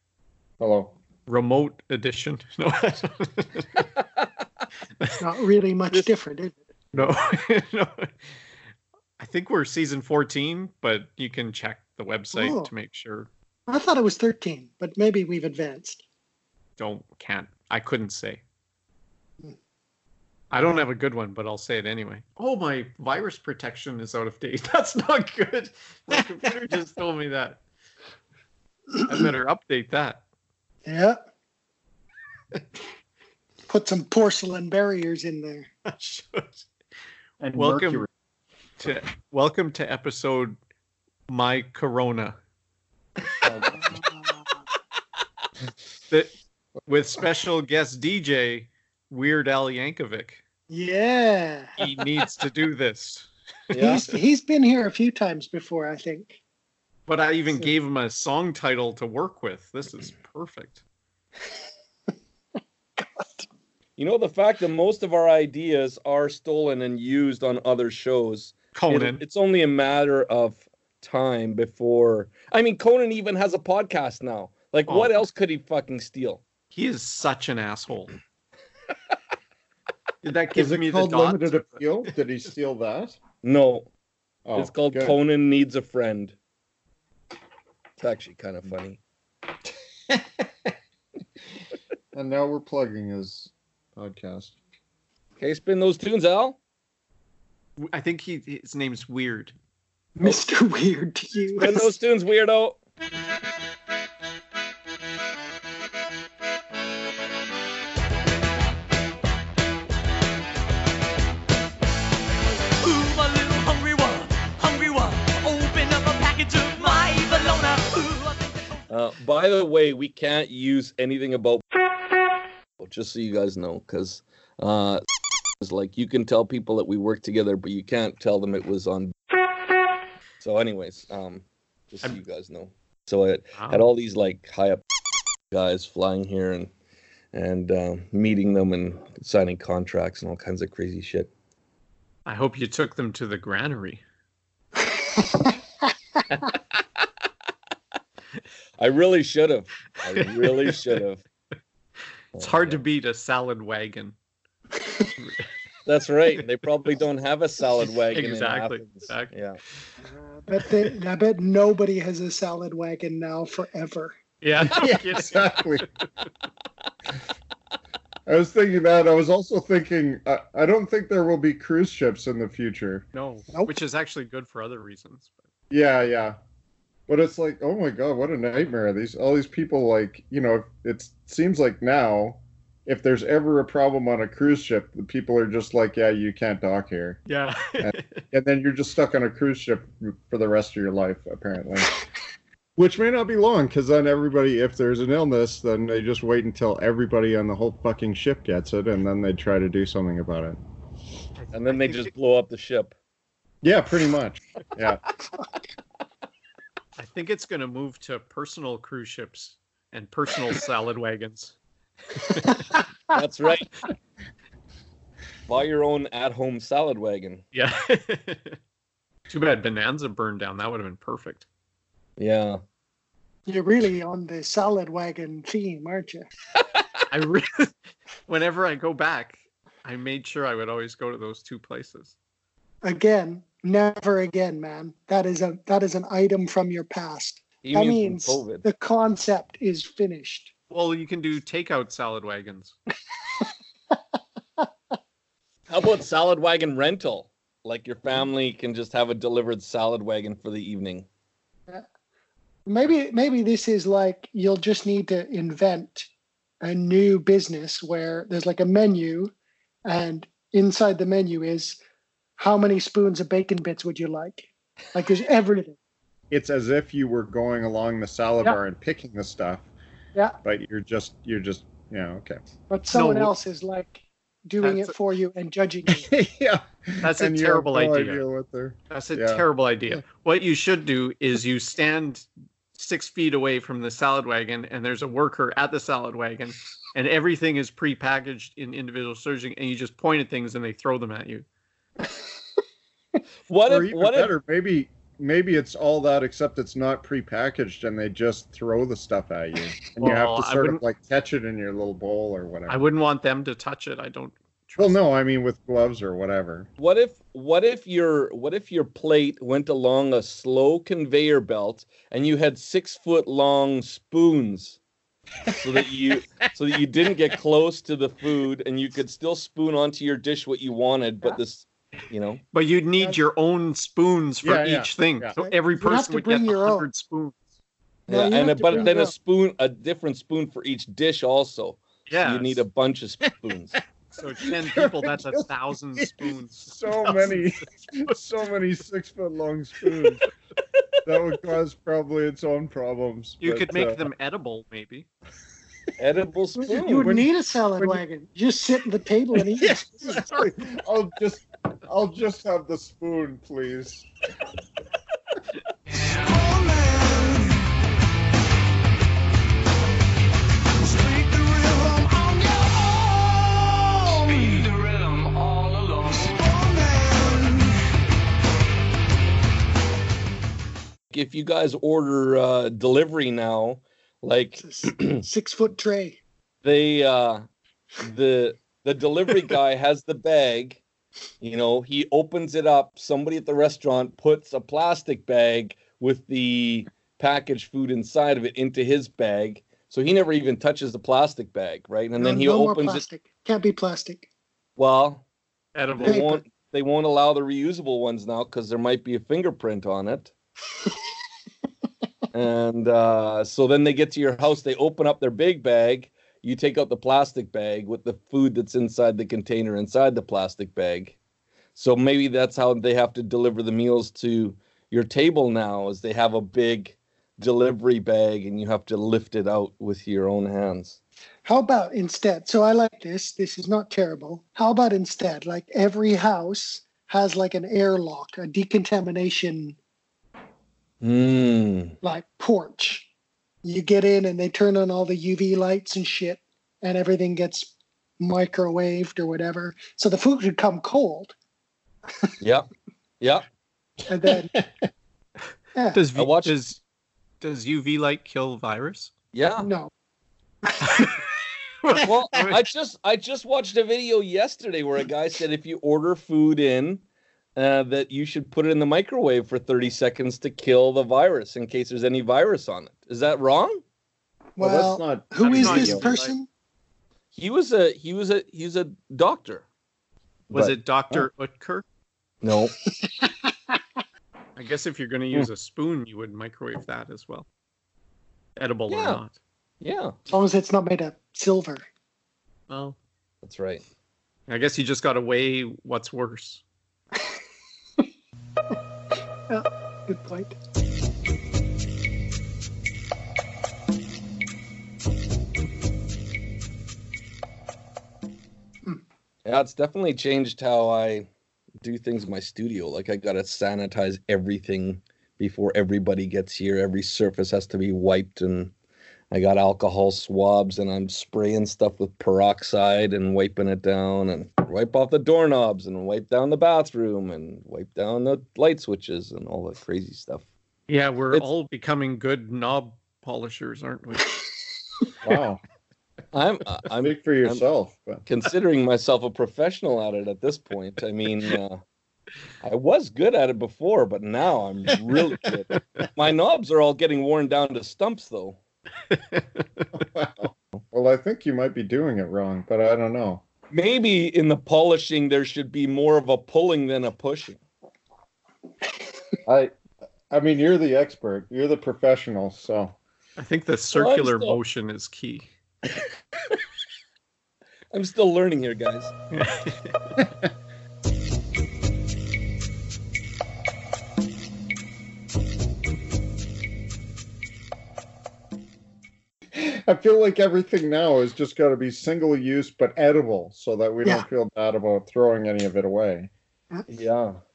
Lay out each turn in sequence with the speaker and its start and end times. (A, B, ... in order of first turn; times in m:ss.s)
0:00.6-0:01.0 A
0:01.3-0:03.9 B
0:05.2-0:06.6 C
0:06.9-0:08.1 B
0:09.2-0:13.3 B
0:12.3-0:12.7 C
0:13.7-0:16.0 C
0:16.8-0:18.4 B
0:20.5-0:27.6 B
0:29.1-0:30.2 B
0:30.9-0:31.2 C
0:33.7-0:35.7 C
0:35.9-0:36.7 B
0:37.4-0:38.1 A
0:37.6-0:38.1 B
0:38.8-0:40.6 B
0:41.3-0:42.4 B
0:43.4-0:43.9 D
0:43.8-0:44.5 C
0:46.9-0:50.4 B
0:50.7-0:51.7 C
0:51.8-0:53.3 B
0:53.7-0:54.0 D
0:53.8-0:56.4 C
0:57.1-1:00.8 B
1:03.0-1:03.5 C
1:04.0-1:16.4 D
1:08.8-1:09.2 B
1:14.9-1:15.2 B
1:16.7-1:18.1 B
1:20.2-1:21.8 B
1:20.6-1:23.2 A
1:23.4-1:23.9 D
1:24.4-1:25.2 A
1:24.6-1:26.4 D
1:28.0-1:29.0 D
1:32.1-1:34.6 A
1:35.4-1:36.6 D
1:37.9-1:39.6 B
1:40.2-1:41.9 C
1:41.6-1:42.8 D
1:52.8-1:58.5 E
1:58.9-2:01.6 D
2:02.8-2:05.0 D
2:05.6-2:09.1 D
2:10.4-2:14.8 D
2:13.6-2:13.9 B
2:15.5-2:16.7 D
2:17.3-2:21.3 D
2:22.2-2:24.0 B
2:28.8-2:31.2 D
2:32.4-2:32.8 D
2:32.4-2:34.2 B
2:35.2-2:35.5 B
2:35.9-2:39.6 D
2:38.1-2:39.3 B
2:40.0-2:44.2 C
2:44.4-2:45.7 B
2:44.6-2:45.9 A
2:48.3-2:53.0 A
2:53.1-2:55.3 B
2:55.7-2:56.4 A
2:57.1-3:07.2 A
3:07.3-3:08.2 B
3:07.8-3:11.9 A
3:12.8-3:20.6 A
3:21.4-3:22.1 B
3:21.5-3:23.0 D
3:23.6-3:25.0 A
3:27.0-3:31.6 B
3:32.2-3:32.8 B
3:33.1-3:33.9 D
3:35.5-3:37.4 D
3:37.5-3:38.6 B
3:39.3-3:41.5 B
3:42.2-3:42.6 D
3:43.5-3:46.3 C
3:47.1-3:47.7 B
3:48.3-3:52.2 B
3:52.8-4:00.5 C
3:57.6-3:58.6 D
4:00.7-4:02.8 B
4:05.7-4:11.1 D
4:12.7-4:16.1 C
4:16.6-4:19.3 C
4:19.9-4:21.8 C
4:22.4-4:25.8 C
4:26.3-4:29.7 A
4:30.4-4:32.4 A
4:32.7-4:36.1 C
4:32.9-4:33.3 B
4:34.6-4:35.0 B
4:35.9-4:40.0 A
4:37.0-4:38.2 B
4:38.9-4:51.5 B
4:53.5-4:54.4 D
4:53.7-5:02.8 A
5:00.0-5:00.8 B
5:02.7-5:05.0 B
5:04.8-5:06.7 A
5:06.8-5:14.8 D
5:15.6-5:22.4 D
5:22.5-5:27.4 B
5:24.4-5:25.4 A
5:25.4-5:26.9 C
5:28.1-5:33.8 D
5:28.1-5:29.2 C
5:32.1-5:32.6 B
5:34.1-5:38.2 B
5:34.7-5:40.2 A
5:41.1-5:44.1 A
5:43.4-5:45.1 B
5:46.0-5:47.2 D
5:46.7-5:50.2 C
5:49.6-5:54.1 A
5:50.1-5:50.6 B
6:01.0-6:04.7 D
6:06.6-6:07.4 C
6:11.1-6:15.2 D
6:14.6-6:16.2 C
6:16.6-6:17.4 D
6:18.0-6:20.8 D
6:21.4-6:33.1 D
6:32.2-6:34.3 C
6:34.8-6:35.2 D
6:35.8-6:36.2 B
6:36.0-6:40.3 D
6:36.0-6:36.4 C
6:42.3-6:51.2 D
6:51.8-7:01.0 D
7:01.4-7:09.8 C
7:11.0-7:12.0 D
7:12.0-7:13.1 C
7:13.6-7:21.3 C
7:22.4-7:22.7 D
7:23.2-7:23.5 D
7:24.1-7:24.5 C
7:24.5-7:24.8 A
7:25.8-7:26.0 C
7:25.9-7:26.8 B
7:26.2-7:26.6 D
7:27.4-7:29.1 B
7:29.3-7:29.7 D
7:29.6-7:29.9 C
7:30.8-7:31.2 B
7:31.8-7:32.6 B
7:32.0-7:37.0 D
7:37.6-7:43.8 D
7:44.6-7:46.5 C
7:44.6-7:46.2 A
7:45.4-7:46.3 B
7:47.3-7:49.6 D
7:50.5-7:51.8 B
7:50.5-7:50.8 D
7:52.4-7:52.8 D
7:53.0-7:53.5 C
7:54.6-7:57.5 B
7:58.6-7:59.4 B
7:58.9-7:59.2 D
7:59.8-8:00.2 D
8:00.3-8:01.8 C
8:02.7-8:03.0 B
8:03.4-8:03.8 D
8:04.5-8:06.6 B
8:09.5-8:10.6 C
8:19.4-8:21.3 D
8:21.8-8:28.7 D
8:29.3-8:40.5 D
8:40.9-8:44.4 B
8:45.2-8:45.6 A
8:46.3-8:47.6 D
8:47.0-8:48.2 A
8:48.3-8:51.8 D
8:52.6-8:58.6 D
8:59.1-8:59.9 B
9:00.0-9:03.4 A
9:03.7-9:07.6 D
9:09.5-9:09.7 A
9:10.3-9:13.0 A
9:13.4-9:15.5 B
9:13.9-9:14.6 D
9:17.9-9:19.1 D
9:19.3-9:20.0 B
9:29.5-9:36.3 A
9:36.9-9:37.4 D